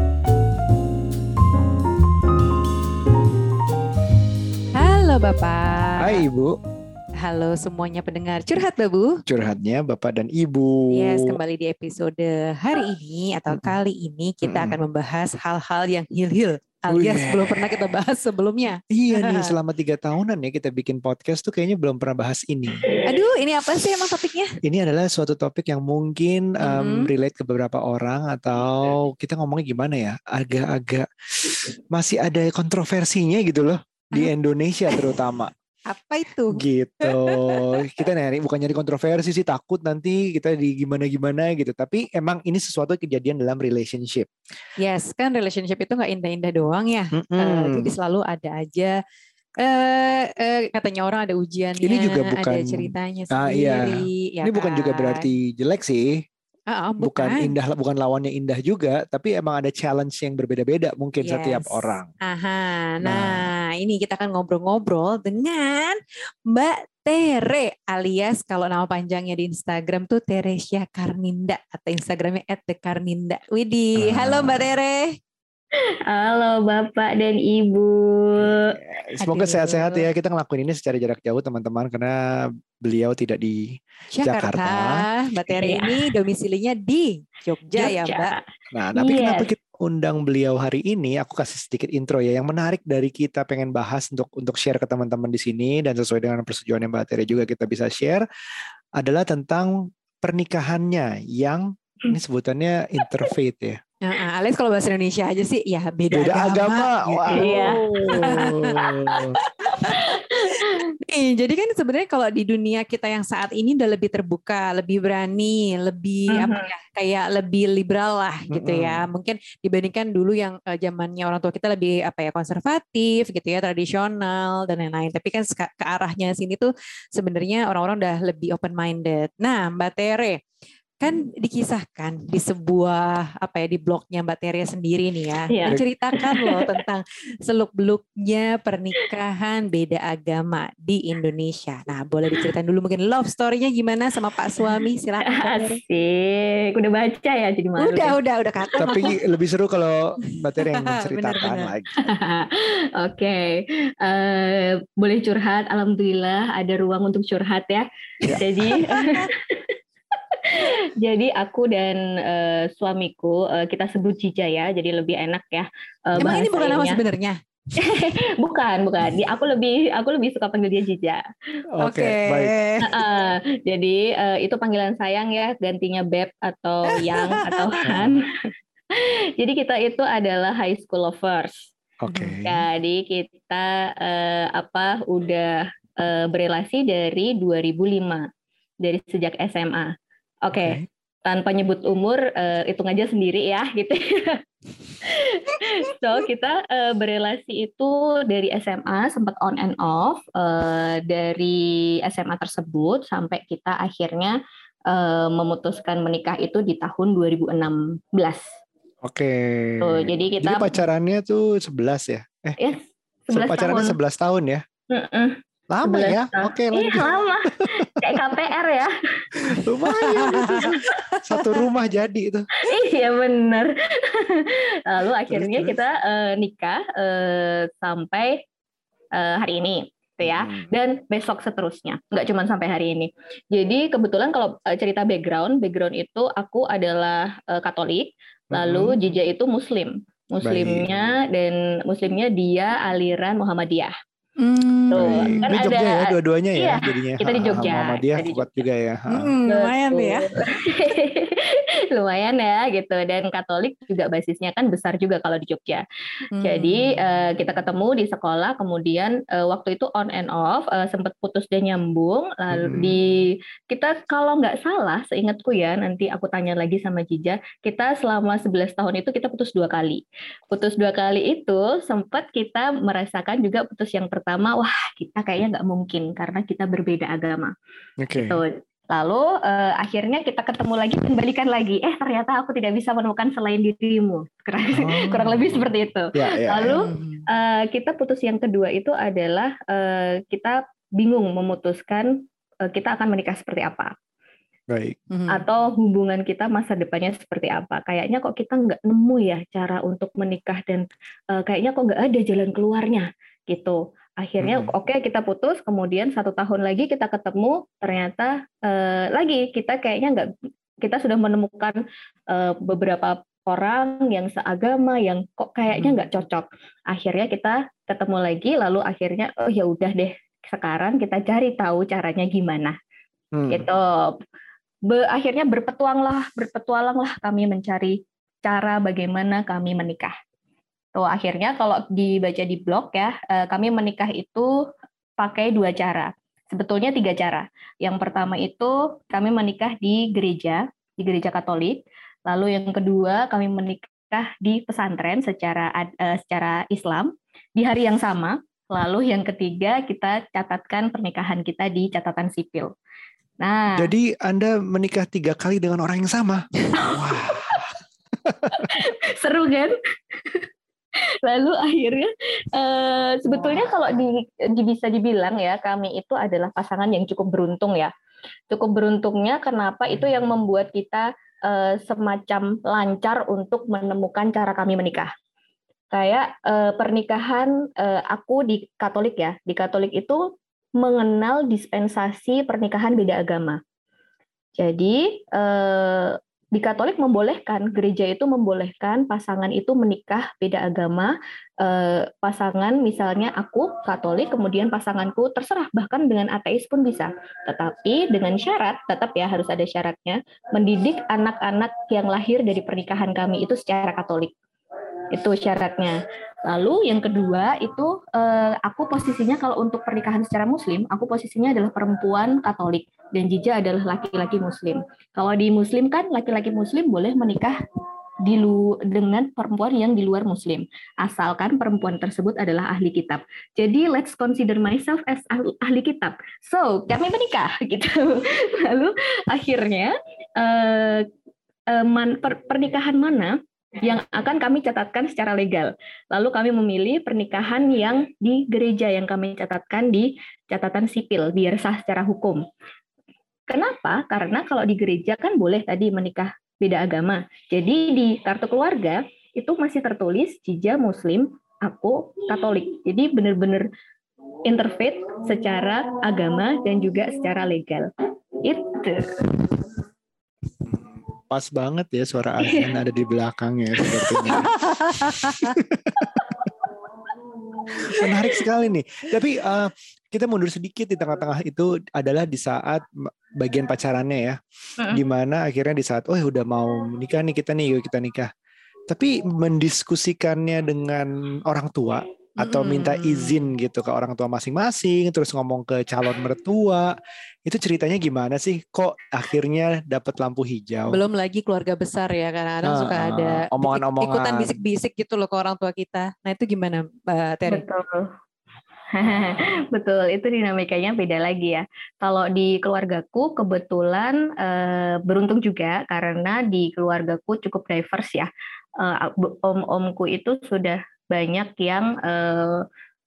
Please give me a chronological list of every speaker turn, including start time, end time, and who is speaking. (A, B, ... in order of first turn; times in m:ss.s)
0:04.7-0:06.2 A
0:06.0-0:06.6 B
0:07.2-0:09.2 A
0:09.3-0:11.4 B
0:10.9-0:19.6 A
0:13.5-0:13.8 B
0:14.4-0:14.8 B
0:16.9-0:17.6 B
0:18.9-0:22.9 B
0:23.0-0:24.6 A
0:24.6-0:35.5 B
0:26.6-0:27.1 A
0:34.9-0:35.2 A
0:35.9-0:37.8 A
0:36.5-0:44.3 B
0:44.8-0:49.0 A
0:47.1-0:47.9 B
0:49.6-0:55.3 A
0:51.8-0:56.2 B
0:56.7-0:57.5 A
0:57.0-1:02.1 B
1:01.2-1:15.2 A
1:03.0-1:03.5 B
1:14.0-1:14.7 B
1:16.0-1:18.8 C
1:18.4-1:25.0 B
1:19.2-1:20.1 A
1:24.1-1:28.3 A
1:25.5-1:26.0 C
1:27.7-1:28.4 C
1:28.7-1:38.2 B
1:29.0-1:29.5 C
1:39.0-1:43.8 B
1:44.0-2:10.4 A
1:46.1-1:49.4 B
1:47.3-1:48.9 C
1:49.6-1:50.9 C
1:56.3-1:56.7 C
1:58.5-1:59.0 B
2:11.0-2:25.8 A
2:15.5-2:16.8 C
2:25.3-2:28.2 C
2:27.8-2:29.2 A
2:28.8-2:31.9 B
2:30.3-2:31.7 A
2:32.0-2:39.8 C
2:38.2-2:39.3 A
2:40.3-2:47.0 C
2:46.2-2:47.4 A
2:47.8-2:51.2 C
2:51.7-2:52.5 B
2:51.8-2:53.1 A
2:52.8-2:58.2 C
2:57.1-2:57.9 A
2:57.8-2:58.2 B
2:58.9-3:01.7 C
3:02.0-3:02.6 B
3:02.1-3:02.4 A
3:02.4-3:08.3 C
3:08.8-3:09.9 C
3:10.4-3:14.4 C
3:10.5-3:10.8 B
3:15.0-3:28.6 C
3:29.0-3:32.6 B
3:29.8-3:30.8 C
3:32.6-3:34.0 C
3:33.3-3:34.6 B
3:34.9-3:39.6 C
3:35.7-3:38.2 B
3:39.4-3:42.5 B
3:39.9-3:41.5 A
3:40.2-3:40.7 C
3:42.6-3:48.4 C
3:45.3-3:45.8 B
3:49.1-4:03.9 C
3:50.2-3:50.7 B
3:58.5-3:59.0 B
4:00.4-4:00.9 B
4:04.4-4:05.5 A
4:04.9-4:08.6 C
4:05.0-4:09.3 B
4:09.1-4:10.3 A
4:09.4-4:15.8 C
4:16.3-4:17.0 A
4:16.4-4:37.5 C
4:22.5-4:23.0 B
4:38.0-4:38.4 B
4:38.1-4:53.9 C
4:44.7-4:46.8 B
4:46.8-4:47.2 A
4:54.7-4:55.0 B
4:55.1-4:55.4 A
4:55.3-5:10.3 C
5:04.4-5:04.7 B
5:10.8-5:22.8 C
5:23.3-5:23.7 B
5:23.5-5:24.2 C
5:24.8-5:30.1 C
5:30.9-5:34.6 C
5:35.2-5:52.7 C
5:53.4-5:53.9 C
5:53.8-5:57.7 B
5:56.7-5:57.6 C
5:58.2-5:58.8 B
5:58.5-5:59.7 C
6:01.2-6:07.9 C
6:08.5-6:15.1 C
6:15.9-6:23.6 C
6:24.6-6:44.3 C
6:45.1-6:57.6 C
6:58.2-7:11.1 C
7:11.7-7:22.4 C
7:23.5-7:33.7 C
7:34.4-7:37.9 C
7:38.4-7:39.4 C
7:40.6-7:46.5 B
7:44.6-7:45.5 A
7:47.6-7:48.4 C
7:47.8-7:54.4 B
7:54.9-7:58.3 B
7:58.9-8:11.0 B
8:02.4-8:03.5 A
8:10.9-8:17.6 A
8:12.6-8:14.6 B
8:17.5-8:18.1 C
8:18.9-8:32.6 C